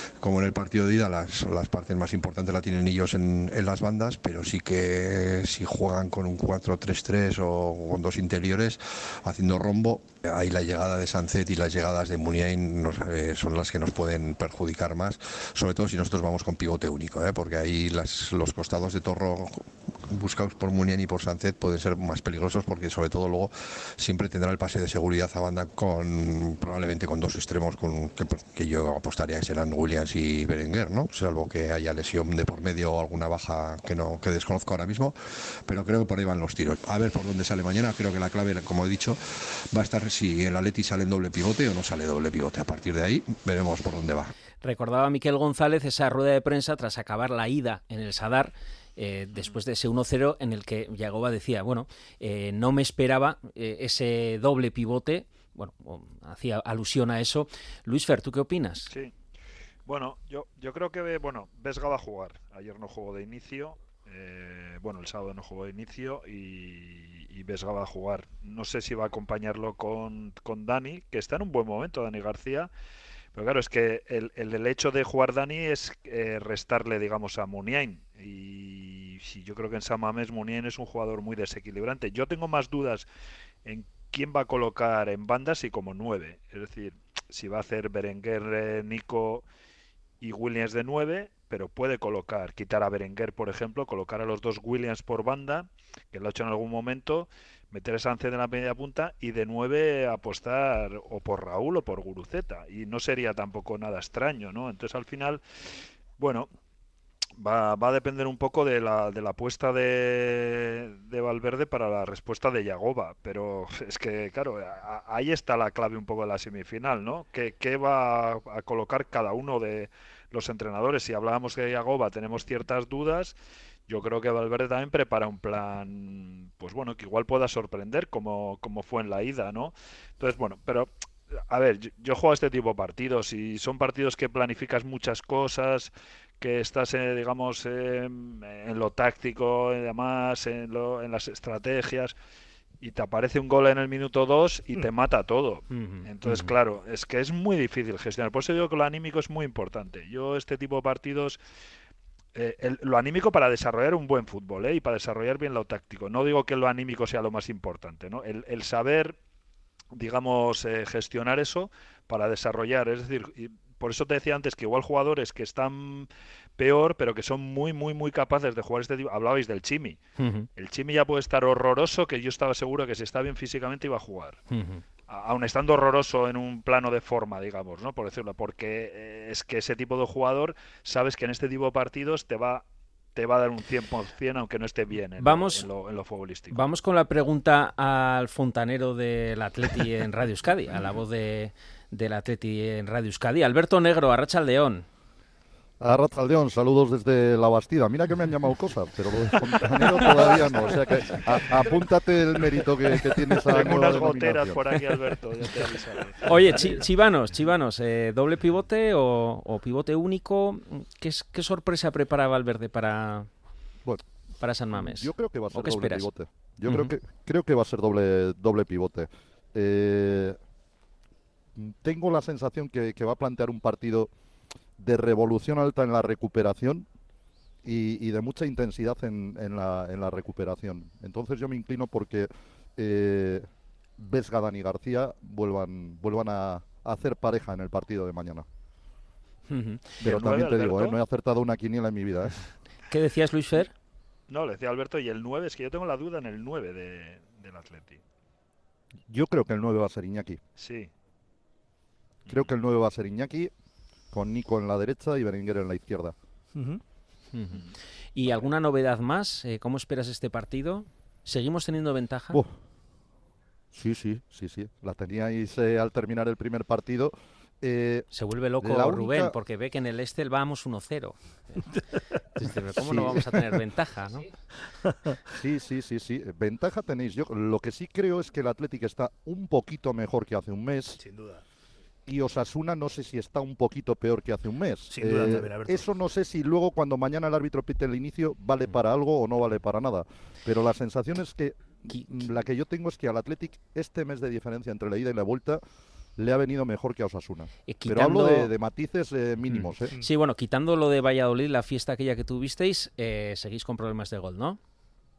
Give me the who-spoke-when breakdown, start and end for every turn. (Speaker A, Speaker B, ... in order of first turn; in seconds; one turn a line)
Speaker A: 0.2-44.3
Speaker B: 44.6-58.9
Speaker C: 59.9-72.7
Speaker C: 73.3-83.1
Speaker C: 83.7-89.5
Speaker C: 90.2-105.4
Speaker C: 106.2-106.5
Speaker C: 107.4-123.3
Speaker C: 123.9-142.2
Speaker C: 142.8-151.4
Speaker B: 145.7-146.5
Speaker C: 152.3-159.2
Speaker C: 159.9-170.0
Speaker B: 170.2-170.5
Speaker C: 170.6-174.4
Speaker B: 174.5-174.8
Speaker C: 175.1-186.7
Speaker B: 185.2-185.7
Speaker B: 186.5-194.9
Speaker D: 195.8-204.6
Speaker C: 203.4-206.3
Speaker E: 205.4-206.8
Speaker B: 206.2-213.3
Speaker B: 214.4-216.1
Speaker D: 214.8-220.4
Speaker B: 216.7-216.9
Speaker D: 221.6-224.1
Speaker D: 224.8-226.9
Speaker D: 227.6-233.5
Speaker D: 234.0-238.5
Speaker B: 239.5-240.0
Speaker C: 240.0-241.0
Speaker D: 240.0-242.4
Speaker B: 242.9-243.7
Speaker C: 244.3-248.0
Speaker D: 249.1-250.4
Speaker C: 250.6-250.9
Speaker D: 252.3-253.5
Speaker D: 254.1-256.1
Speaker E: 256.6-256.8
Speaker B: 257.3-262.4
Speaker D: 263.7-269.3
Speaker B: 268.1-271.8
Speaker B: 272.4-274.3
Speaker D: 272.8-273.2
Speaker E: 274.9-275.1
Speaker D: 275.3-281.0
Speaker E: 281.0-281.4
Speaker D: 282.1-295.6
Speaker E: 284.9-285.9
Speaker B: 291.9-292.2
Speaker D: 296.2-299.9
Speaker B: 297.7-298.5
Speaker B: 299.5-304.6